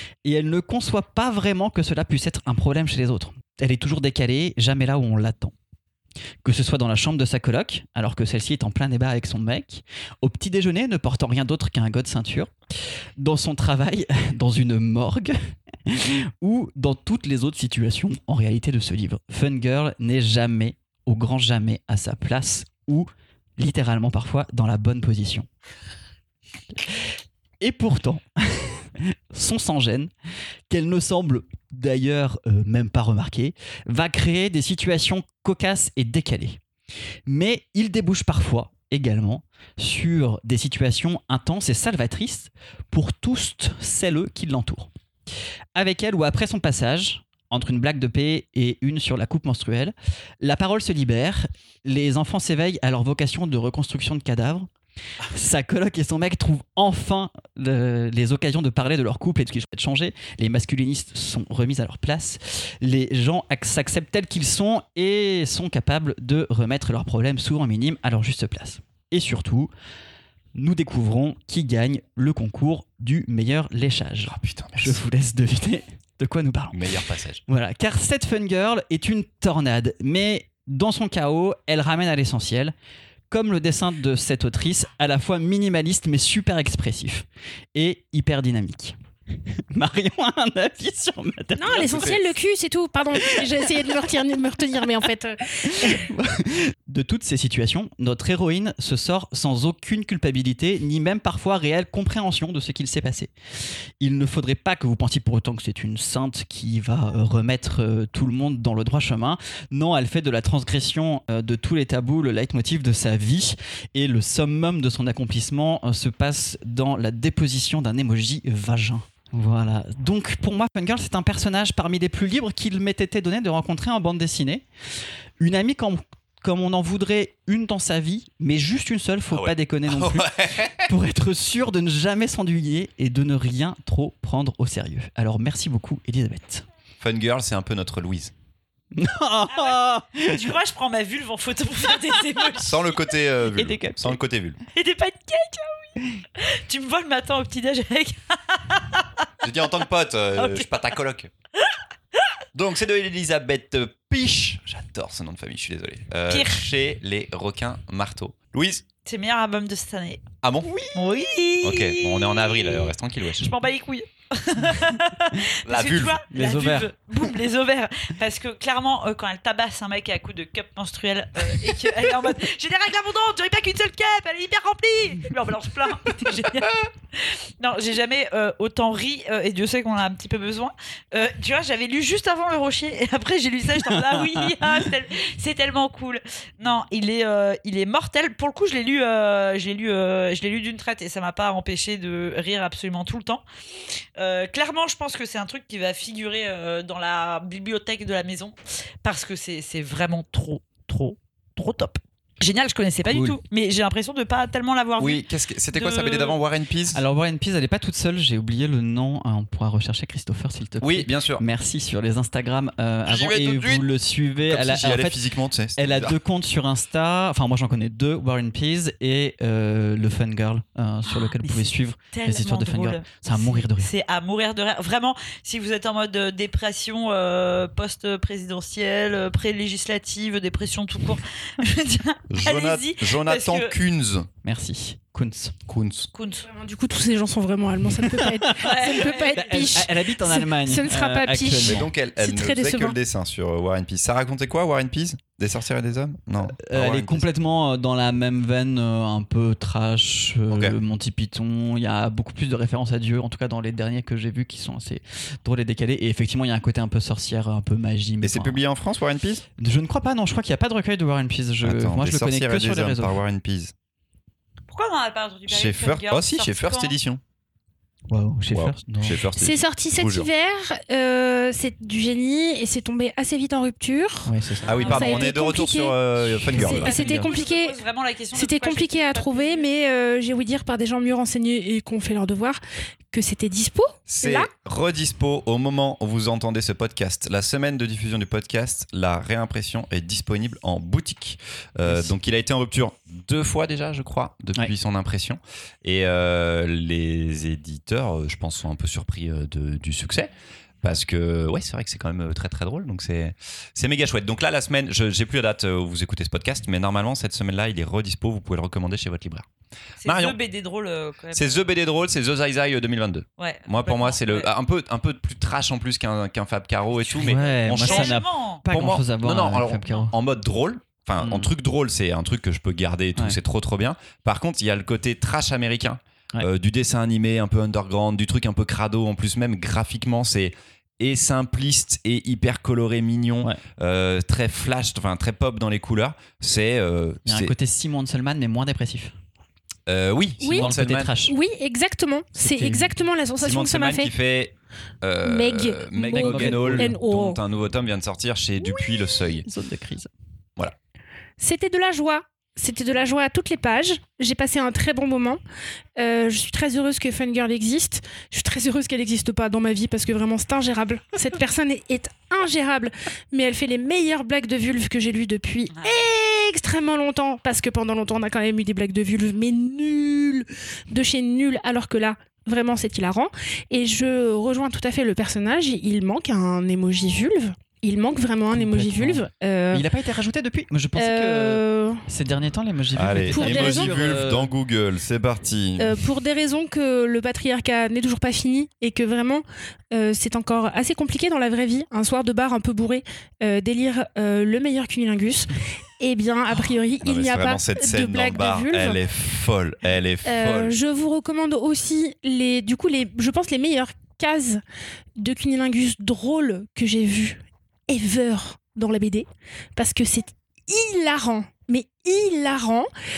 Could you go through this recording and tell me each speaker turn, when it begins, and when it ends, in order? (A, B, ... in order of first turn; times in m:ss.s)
0:00.2-0:05.6 A
0:06.4-0:12.5 A
0:13.2-0:25.5 A
0:27.6-0:30.1 A
0:30.7-0:36.6 A
0:37.3-0:44.9 A
0:45.8-0:54.7 A
0:55.3-1:09.7 A
1:10.6-1:16.8 A
1:14.3-1:15.0 B
1:16.7-1:17.4 B
1:17.5-1:22.7 A
1:23.3-1:29.0 A
1:29.5-1:32.3 A
1:31.6-1:36.1 C
1:33.2-1:33.9 A
1:35.6-1:43.3 A
1:44.0-2:04.6 A
2:05.4-2:16.7 A
2:09.3-2:10.9 B
2:17.0-2:18.3 B
2:19.0-2:20.5 A
2:19.5-2:22.9 D
2:22.6-2:24.6 B
2:23.6-2:24.2 A
2:24.7-2:29.3 D
2:29.4-2:31.3 B
2:30.4-2:30.9 D
2:31.6-2:32.4 D
2:32.5-2:38.8 B
2:36.3-2:36.6 D
2:39.1-2:40.3 D
2:40.4-2:40.7 B
2:40.7-2:41.0 A
2:40.9-3:13.4 D
2:41.6-2:43.5 B
2:45.6-2:46.2 B
2:46.3-2:46.9 A
3:14.2-3:26.4 D
3:23.1-3:23.4 A
3:25.0-3:27.0 B
3:26.9-3:35.2 A
3:30.8-3:31.4 B
3:33.1-3:33.9 B
3:34.5-3:36.2 B
3:35.8-3:43.9 A
3:41.1-3:53.8 D
3:52.3-3:54.3 B
3:54.4-3:55.6 A
3:55.7-3:56.1 B
3:56.2-3:56.5 D
3:56.4-4:03.0 C
3:58.0-4:01.9 A
3:58.6-3:59.4 D
4:01.6-4:07.3 B
4:06.6-4:18.6 A
4:10.5-4:10.8 B
4:18.2-4:19.4 B
4:19.6-4:23.2 A
4:21.6-4:23.7 B
4:24.7-4:26.9 D
4:25.5-4:27.2 B
4:28.1-4:29.2 A
4:28.5-4:30.3 B
4:29.4-4:36.0 C
4:34.3-4:35.3 A
4:34.7-4:37.0 B
4:34.7-4:35.1 D
4:36.2-4:37.3 A
4:36.5-4:37.8 C
4:36.6-4:39.7 D
4:38.3-4:42.6 C
4:43.1-4:44.5 C
4:44.1-5:00.3 B
4:51.9-4:52.1 A
5:00.8-5:09.5 B
5:10.0-5:11.7 D
5:10.0-5:10.4 B
5:11.3-5:37.5 B
5:13.4-5:14.5 D
5:17.1-5:20.1 A
5:17.8-5:18.6 D
5:21.2-5:21.5 A
5:37.3-5:39.1 A
5:39.9-5:41.1 B
5:40.4-5:44.1 C
5:40.5-5:41.4 A
5:42.4-5:43.0 A
5:43.4-5:49.5 B
5:45.2-5:47.4 C
5:46.1-5:47.0 A
5:49.4-5:50.1 A
5:51.4-5:55.4 C
5:56.0-6:19.9 C
6:05.7-6:06.0 D
6:18.5-6:24.5 A
6:21.0-6:22.0 C
6:23.0-6:26.0 B
6:23.3-6:24.0 C
6:25.8-6:39.0 C
6:37.0-6:40.8 B
6:40.2-6:44.6 C
6:45.2-6:52.9 C